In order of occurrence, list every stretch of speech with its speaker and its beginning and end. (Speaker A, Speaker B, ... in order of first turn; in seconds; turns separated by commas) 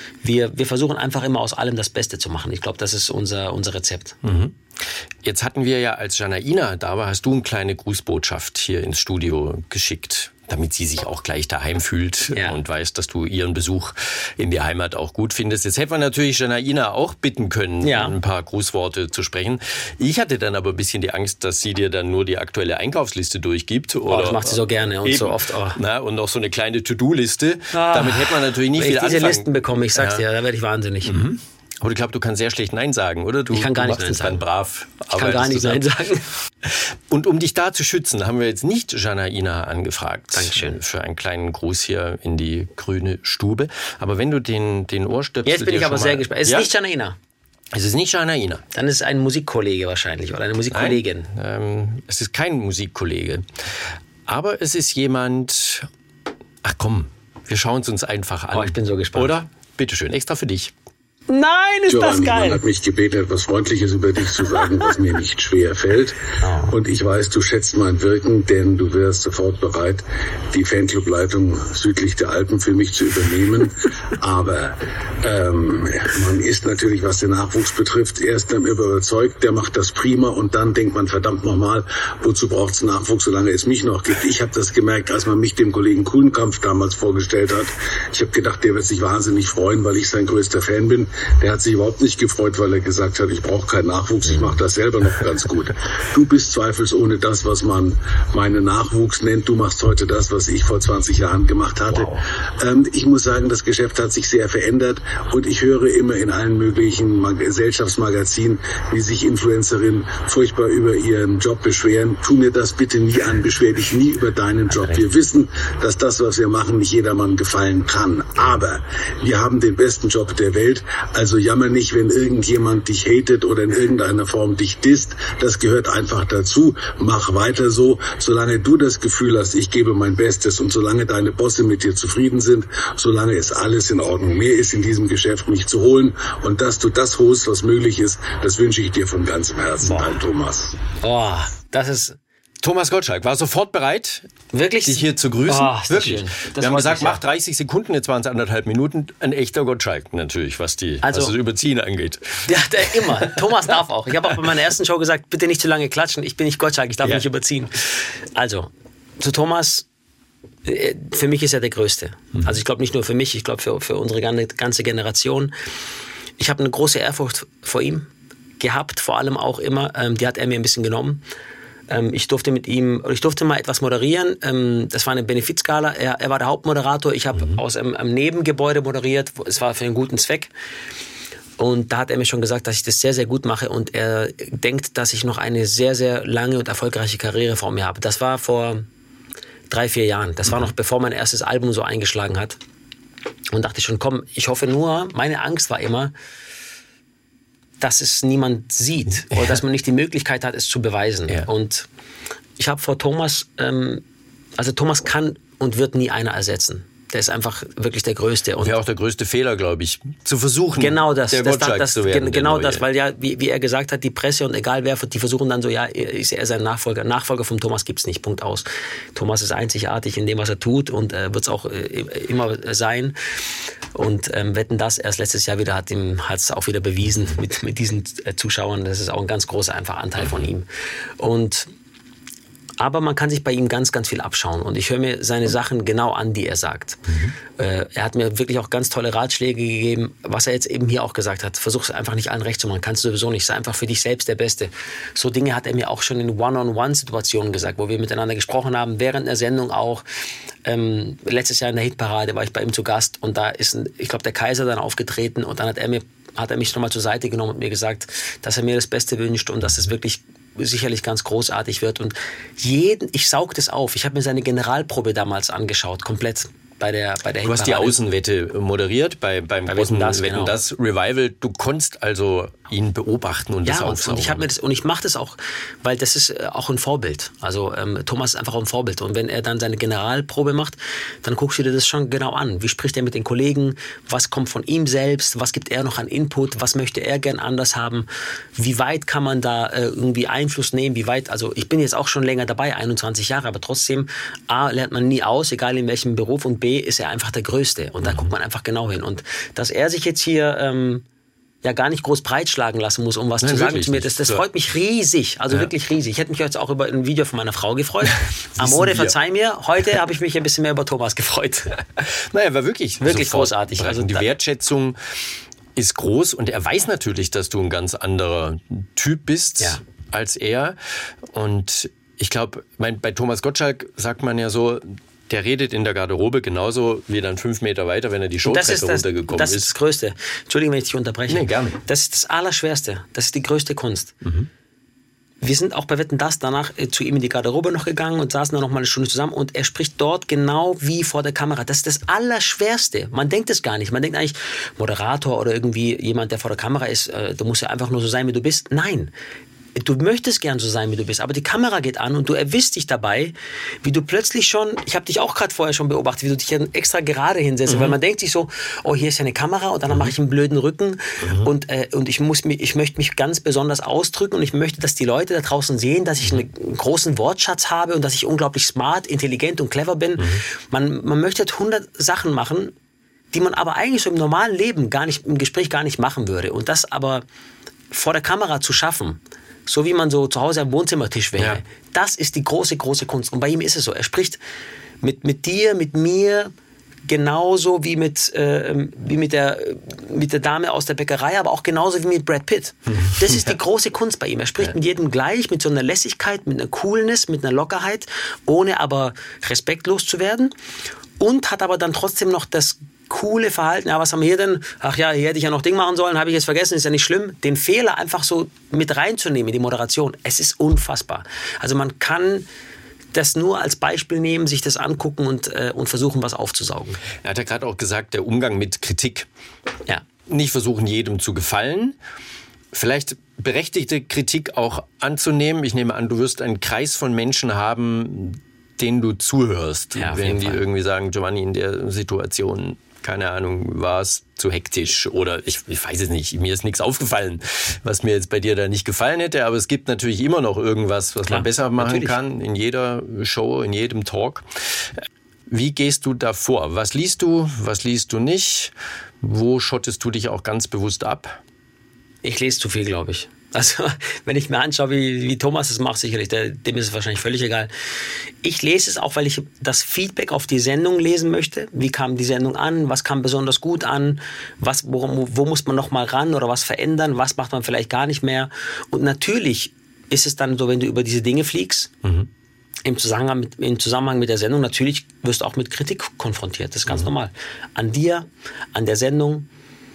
Speaker A: 0.2-4.2, Speaker B: 4.2-30.2, Speaker A: 12.3-12.6, Speaker A: 17.8-18.1, Speaker A: 24.1-25.8, Speaker A: 27.7-31.2, Speaker B: 31.0-35.8, Speaker A: 33.5-34.4, Speaker A: 35.1-36.3, Speaker B: 36.6-46.7, Speaker A: 40.3-40.8, Speaker A: 45.4-47.1, Speaker B: 47.7-48.6, Speaker A: 48.7-51.3, Speaker B: 50.7-53.5, Speaker B: 54.3-55.9, Speaker B: 56.6-60.7, Speaker A: 58.5-59.3, Speaker A: 61.3-62.6, Speaker C: 61.9-140.8, Speaker A: 64.5-64.8, Speaker A: 66.4-66.7, Speaker A: 101.9-102.2, Speaker A: 141.0-142.2, Speaker B: 142.6-144.3, Speaker A: 144.5-147.2, Speaker B: 144.8-152.5, Speaker A: 151.0-151.3, Speaker A: 152.4-159.8, Speaker B: 153.1-153.3, Speaker A: 160.6-165.5, Speaker A: 166.4-171.2, Speaker A: 171.9-180.5, Speaker A: 181.6-188.8, Speaker A: 189.7-192.6, Speaker A: 193.5-196.1, Speaker A: 197.8-201.9, Speaker A: 202.6-204.0, Speaker A: 204.6-208.7, Speaker B: 208.6-212.8, Speaker A: 210.8-223.2, Speaker A: 223.9-230.7, Speaker A: 231.2-231.7, Speaker A: 232.8-250.0, Speaker A: 250.6-268.0, Speaker B: 267.4-274.4, Speaker A: 269.7-270.6, Speaker A: 273.6-301.0, Speaker B: 298.0-298.3, Speaker A: 301.6-311.8, Speaker B: 303.4-304.4, Speaker B: 308.6-309.1, Speaker B: 312.0-315.0, Speaker A: 313.0-314.3, Speaker B: 315.7-320.8, Speaker B: 321.3-329.7, Speaker A: 328.4-334.2, Speaker B: 331.3-331.8, Speaker B: 334.2-334.5, Speaker A: 335.4-349.1, Speaker A: 349.7-372.7, Speaker B: 357.7-357.9, Speaker B: 361.2-361.5, Speaker B: 370.2-370.4, Speaker A: 373.3-377.2, Speaker A: 377.9-384.4, Speaker A: 385.0-386.5, Speaker A: 387.1-400.5, Speaker A: 401.2-412.4, Speaker A: 413.1-417.0, Speaker B: 417.2-419.3, Speaker B: 420.2-422.0, Speaker B: 422.7-451.4, Speaker A: 429.9-430.6, Speaker A: 441.3-442.2, Speaker A: 452.2-457.7, Speaker A: 458.4-471.9, Speaker A: 472.8-479.5